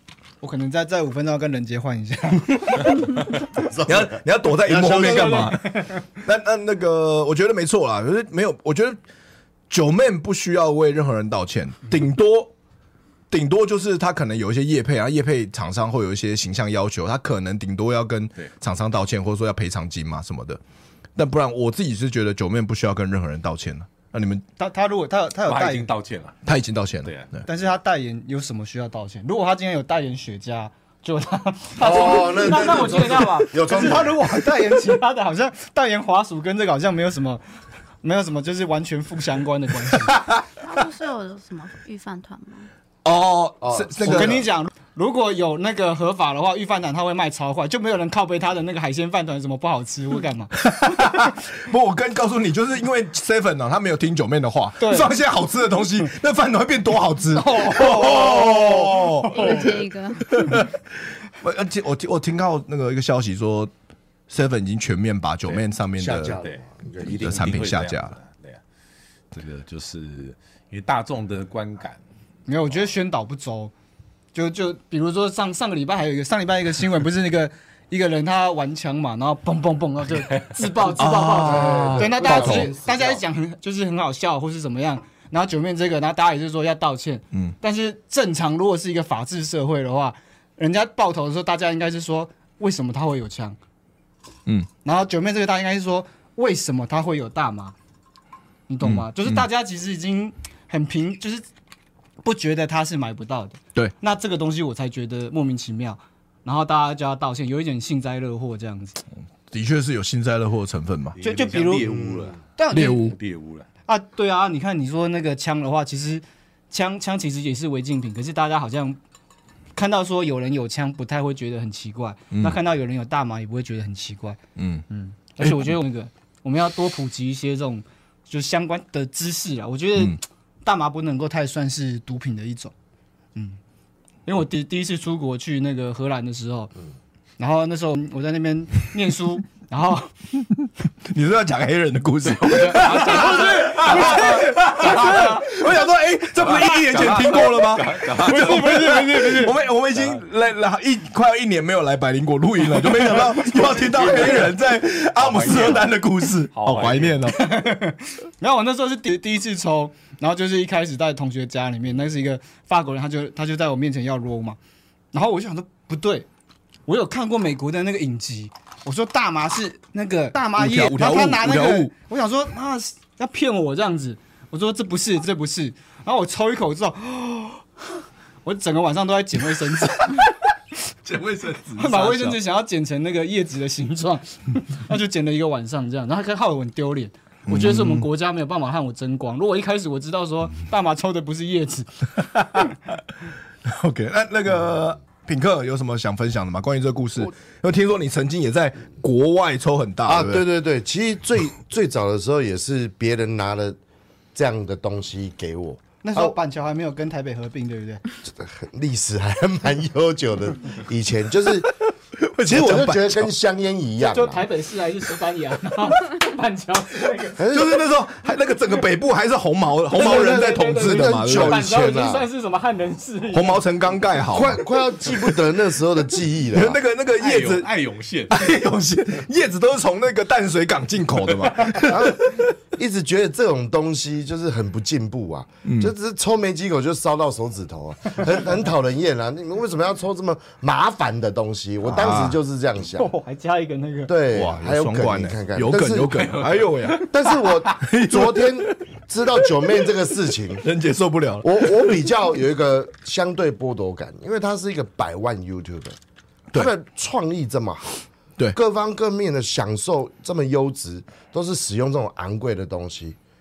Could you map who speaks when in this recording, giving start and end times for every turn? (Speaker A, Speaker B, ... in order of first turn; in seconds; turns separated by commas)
Speaker A: 0.4-3.0, Speaker B: 3.7-5.6, Speaker C: 3.9-9.0, Speaker A: 4.8-6.0, Speaker C: 9.7-12.5, Speaker C: 13.3-20.6, Speaker C: 21.2-24.4, Speaker A: 24.6-25.9, Speaker D: 25.5-26.4, Speaker C: 26.4-27.4, Speaker D: 27.0-27.3, Speaker A: 27.5-37.4, Speaker B: 31.8-34.2, Speaker A: 38.0-40.1, Speaker E: 40.6-42.7, Speaker C: 43.0-44.4, Speaker B: 43.6-44.4, Speaker A: 44.0-50.6, Speaker C: 50.6-59.6, Speaker A: 54.8-55.1, Speaker A: 57.3-59.6, Speaker E: 59.2-60.7, Speaker C: 60.3-63.7, Speaker C: 64.3-66.4, Speaker B: 66.0-67.4, Speaker D: 66.4-68.6, Speaker C: 67.1-68.2, Speaker D: 69.3-72.0, Speaker A: 72.5-73.7, Speaker A: 74.3-93.6, Speaker D: 80.2-80.6, Speaker C: 81.0-82.7, Speaker B: 81.4-83.2, Speaker A: 94.8-97.8, Speaker A: 98.7-101.5, Speaker C: 98.8-99.5, Speaker A: 102.2-109.0, Speaker C: 109.5-111.2, Speaker D: 111.2-113.7, Speaker A: 111.2-112.0, Speaker A: 112.6-113.1, Speaker C: 112.7-113.2, Speaker A: 113.9-119.0, Speaker A: 119.8-124.4, Speaker C: 122.3-122.6, Speaker C: 124.6-124.8, Speaker A: 124.9-132.7, Speaker C: 125.4-125.7, Speaker A: 134.3-136.7, Speaker A: 137.4-140.1, Speaker C: 141.0-157.5, Speaker D: 142.4-145.6, Speaker A: 143.0-145.4, Speaker D: 146.4-148.7, Speaker A: 147.9-149.6, Speaker D: 149.9-150.2, Speaker D: 154.1-154.4, Speaker D: 155.2-155.9, Speaker D: 156.5-157.3, Speaker A: 157.3-164.6, Speaker A: 165.1-166.3, Speaker A: 166.9-177.7, Speaker C: 170.6-171.9, Speaker A: 178.4-180.4, Speaker C: 181.1-182.4, Speaker A: 181.8-192.2, Speaker C: 187.5-188.1, Speaker C: 193.7-200.4, Speaker B: 200.1-203.8, Speaker B: 204.3-206.3, Speaker A: 206.0-208.0, Speaker B: 208.3-211.8, Speaker C: 212.2-213.3, Speaker B: 212.4-214.4, Speaker A: 214.0-217.4, Speaker B: 217.4-217.8, Speaker C: 217.5-221.7, Speaker A: 220.0-223.6, Speaker B: 220.0-222.3, Speaker C: 223.3-225.3, Speaker B: 224.3-226.8, Speaker C: 226.5-227.7, Speaker D: 227.2-228.5, Speaker C: 228.3-232.5, Speaker B: 231.8-243.1, Speaker C: 235.7-235.9, Speaker C: 241.8-242.4, Speaker A: 243.0-244.1, Speaker B: 244.1-246.2, Speaker C: 244.3-247.1, Speaker D: 246.1-247.6, Speaker B: 247.0-250.7, Speaker C: 247.8-248.8, Speaker C: 250.6-252.0, Speaker B: 251.4-256.0, Speaker B: 256.5-263.2